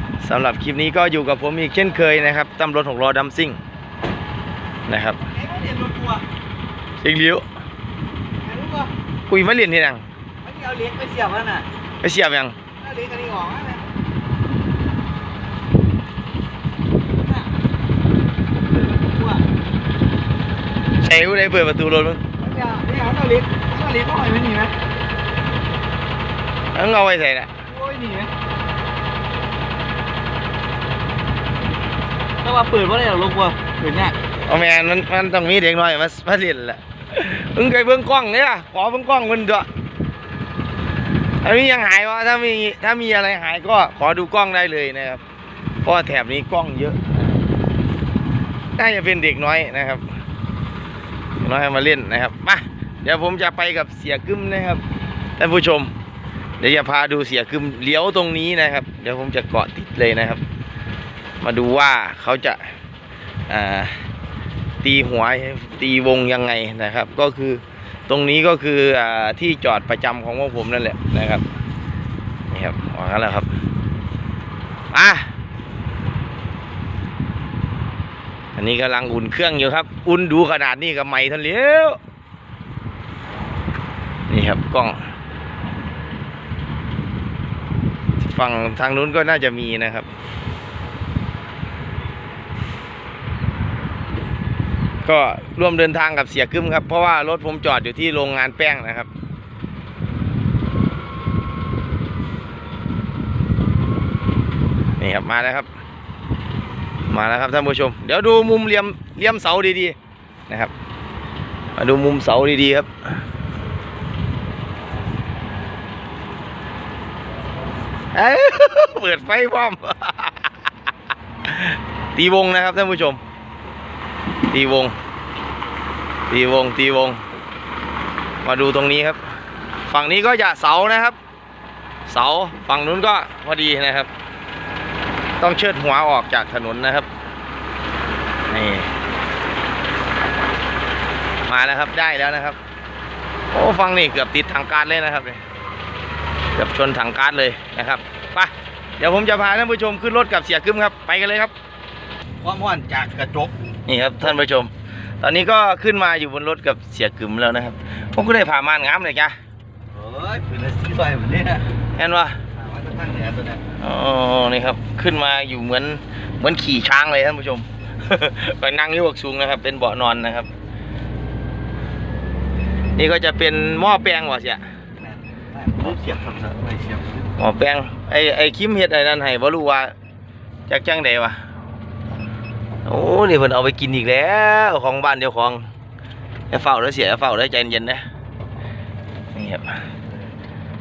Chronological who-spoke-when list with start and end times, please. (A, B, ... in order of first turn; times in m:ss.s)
0:00.2-0:03.6 A
0:04.9-0:05.2 A
0:05.3-0:06.2 B
0:07.0-0:07.4 A
0:08.4-0:08.9 B
0:09.3-0:10.0 A
0:10.4-0:11.7 B
0:12.0-0:12.6 A
0:12.8-0:13.8 B
0:17.2-0:17.5 B
0:18.6-0:19.4 B
0:21.0-0:22.2 A
0:22.4-0:24.7 B
0:26.7-0:27.5 A
0:27.7-0:28.3 B
0:32.4-0:34.1 B
0:34.5-0:39.7 A
0:41.4-0:45.2 A
0:45.8-0:47.0 A
0:48.8-0:50.0 A
0:51.4-0:54.8 A
0:55.4-0:55.9 A
0:56.6-1:00.4 A
1:01.4-1:02.7 A
1:03.5-1:04.1 A
1:04.8-1:11.4 A
1:12.5-1:13.5 A
1:14.9-1:15.3 A
1:18.6-1:22.0 A
1:24.3-1:25.0 A
1:28.2-1:30.1 A
1:35.0-1:39.1 A
1:45.0-1:45.7 A
1:47.1-1:50.0 A
1:51.8-1:52.9 A
1:58.1-2:00.5 A
2:01.5-2:03.2 A
2:04.5-2:04.9 A
2:06.3-2:07.2 A
2:08.4-2:09.2 A
2:09.9-2:11.2 A
2:12.1-2:14.1 A
2:15.4-2:17.1 A
2:18.5-2:18.9 A
2:21.5-2:22.6 A
2:23.5-2:25.4 A
2:26.5-2:31.5 A
2:32.4-2:33.5 B
2:33.9-2:39.4 A
2:39.9-2:41.6 B
2:42.0-2:42.4 A
2:42.5-2:43.6 B
2:43.8-2:50.5 A
2:53.0-2:54.6 A
2:55.0-2:57.3 B
2:57.4-2:59.9 A
3:00.7-3:01.4 A
3:02.8-3:05.6 A
3:06.5-3:08.0 A
3:09.3-3:09.8 A